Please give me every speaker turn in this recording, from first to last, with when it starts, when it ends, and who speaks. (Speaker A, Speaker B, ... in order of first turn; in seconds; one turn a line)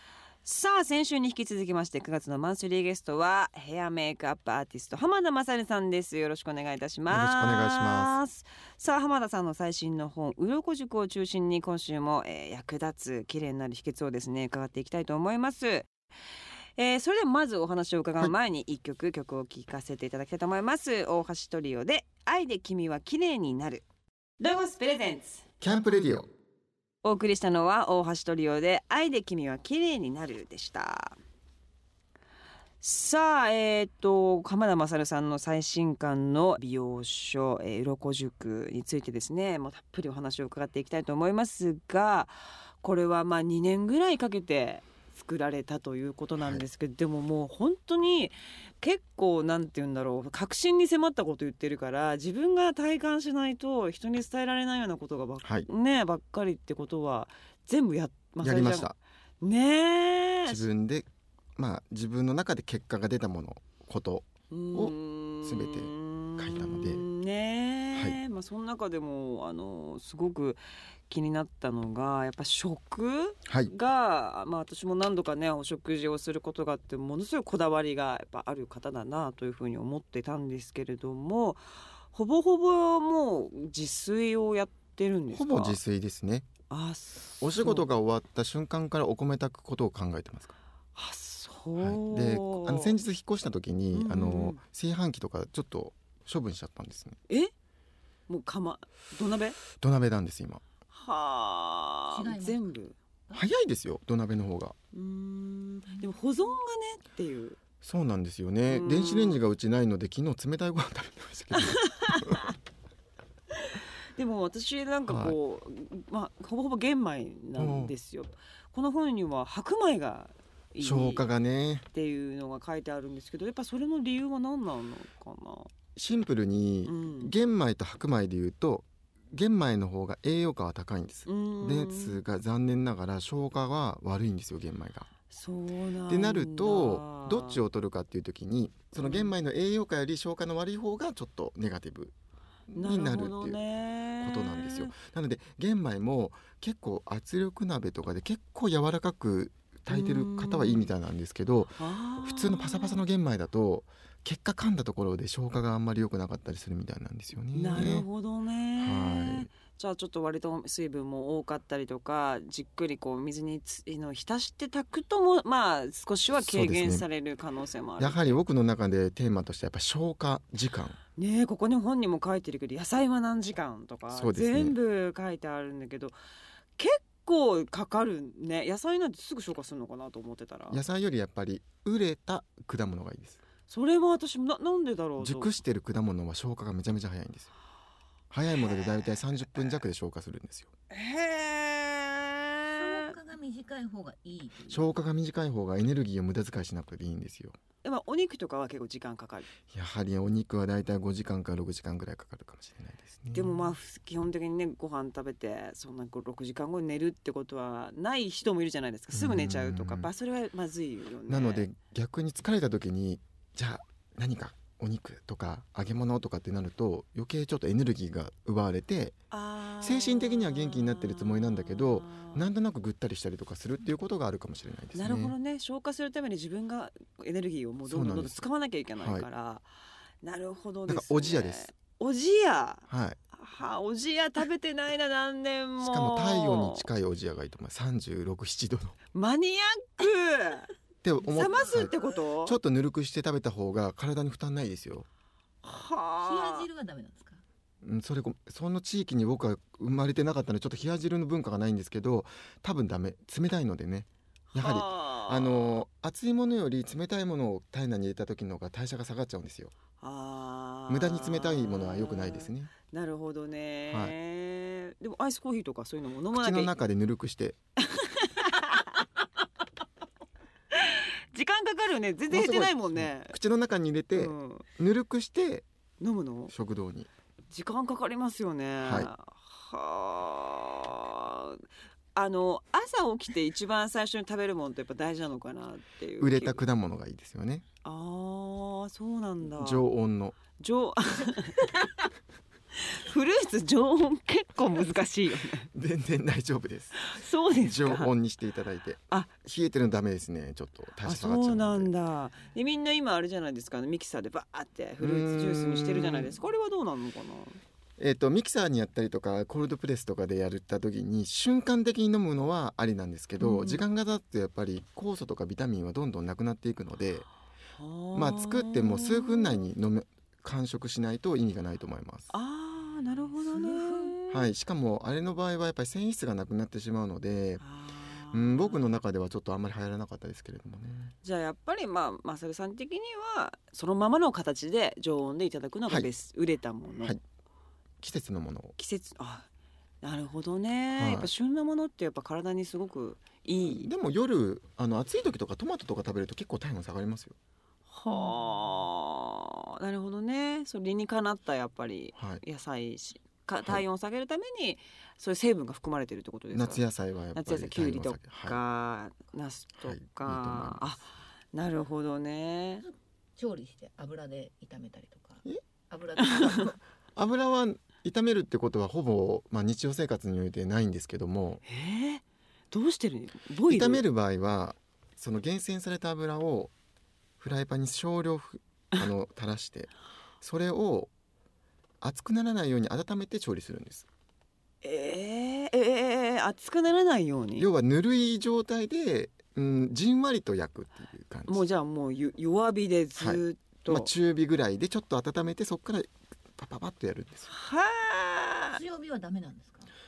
Speaker A: 0.4-15.9
Speaker B: 7.1-8.2
Speaker A: 16.8-23.8
Speaker A: 24.4-25.4
Speaker B: 25.6-26.3
Speaker A: 27.0-31.1
Speaker A: 32.8-60.6
Speaker B: 46.4-46.6
Speaker B: 55.4-55.7
Speaker B: 58.4-59.0
Speaker B: 60.5-67.0
Speaker A: 64.5-85.8
Speaker B: 67.9-68.2
Speaker B: 73.5-73.7
Speaker B: 85.3-86.5
Speaker A: 86.7-87.9
Speaker B: 87.4-90.5
Speaker A: 91.0-93.0
Speaker B: 91.8-97.2
Speaker A: 93.9-94.6
Speaker A: 98.3-99.6
Speaker B: 99.8-100.6
Speaker A: 100.9-103.0
Speaker C: 102.1-102.7
Speaker B: 103.3-104.7
Speaker A: 104.9-107.6
Speaker B: 107.8-112.5
Speaker A: 108.7-109.4
Speaker A: 111.5-112.5
Speaker A: 113.6-121.3
Speaker B: 115.1-115.4
Speaker B: 117.6-117.9
Speaker B: 120.8-121.8
Speaker A: 121.9-125.7
Speaker B: 126.0-135.1
Speaker A: 126.8-127.3
Speaker A: 131.2-132.2
Speaker A: 135.3-137.6
Speaker B: 136.1-142.1
Speaker A: 139.0-139.3
Speaker B: 142.7-143.6
Speaker A: 142.8-144.9
Speaker B: 144.2-158.1
Speaker A: 149.9-150.9
Speaker A: 151.8-153.0
Speaker A: 157.5-168.3
Speaker B: 158.8-159.5
Speaker B: 166.3-167.1
Speaker B: 168.0-171.0
Speaker A: 171.2-176.1
Speaker B: 174.1-174.7
Speaker A: 176.8-180.8
Speaker B: 180.7-183.4
Speaker A: 183.7-185.5
Speaker B: 185.2-187.5
Speaker B: 188.3-190.7
Speaker A: 188.7-189.0
Speaker A: 190.9-193.1
Speaker C: 192.8-195.0
Speaker B: 194.7-197.5
Speaker A: 197.8-199.5
Speaker B: 199.7-203.5
Speaker A: 203.3-211.7
Speaker B: 209.1-210.1
Speaker B: 211.3-219.2
Speaker A: 219.3-222.4
Speaker B: 219.8-225.3
Speaker A: 224.9-229.7
Speaker B: 227.8-228.4
Speaker B: 229.0-229.3
Speaker A: 230.2-236.8
Speaker B: 230.9-231.7
Speaker B: 232.9-233.2
Speaker B: 235.8-239.0
Speaker A: 239.1-240.7
Speaker B: 241.0-245.1
Speaker A: 241.2-242.6
Speaker C: 241.3-242.0
Speaker A: 245.6-246.7
Speaker C: 246.2-247.4
Speaker B: 247.8-259.7
Speaker A: 254.5-255.8
Speaker A: 260.0-266.7
Speaker B: 260.9-262.7
Speaker B: 266.3-267.6
Speaker A: 267.8-269.0
Speaker A: 270.7-273.3
Speaker B: 272.3-275.6
Speaker A: 274.1-274.6
Speaker A: 276.0-276.5
Speaker B: 276.5-277.1
Speaker A: 277.5-286.6
Speaker B: 278.8-279.1
Speaker B: 286.2-287.6
Speaker A: 287.8-289.9
Speaker B: 289.6-290.4
Speaker A: 290.6-291.7
Speaker A: 292.8-295.7
Speaker B: 295.7-301.9
Speaker A: 297.0-298.1
Speaker A: 301.0-307.6
Speaker B: 305.0-306.3
Speaker B: 308.0-317.3
Speaker A: 313.4-313.8
Speaker A: 317.8-319.6
Speaker B: 318.1-322.3
Speaker A: 322.3-324.5
Speaker C: 323.5-324.1
Speaker B: 324.3-327.6
Speaker A: 327.6-328.9
Speaker B: 328.3-331.1
Speaker A: 331.2-337.1
Speaker B: 338.0-338.7
Speaker A: 338.8-339.5
Speaker A: 340.0-343.9
Speaker B: 340.9-341.3
Speaker B: 343.6-347.3
Speaker A: 347.9-356.8
Speaker B: 352.1-352.4
Speaker B: 356.5-358.6
Speaker A: 357.3-362.8
Speaker B: 359.8-361.0
Speaker C: 362.8-366.8
Speaker A: 366.2-366.6
Speaker B: 367.1-371.6
Speaker A: 371.6-374.0
Speaker B: 373.7-376.7
Speaker B: 377.4-381.1
Speaker B: 382.0-384.1
Speaker A: 384.8-387.7
Speaker B: 387.6-391.6
Speaker A: 391.5-394.1
Speaker B: 393.2-397.5
Speaker A: 397.5-398.8
Speaker C: 398.7-399.9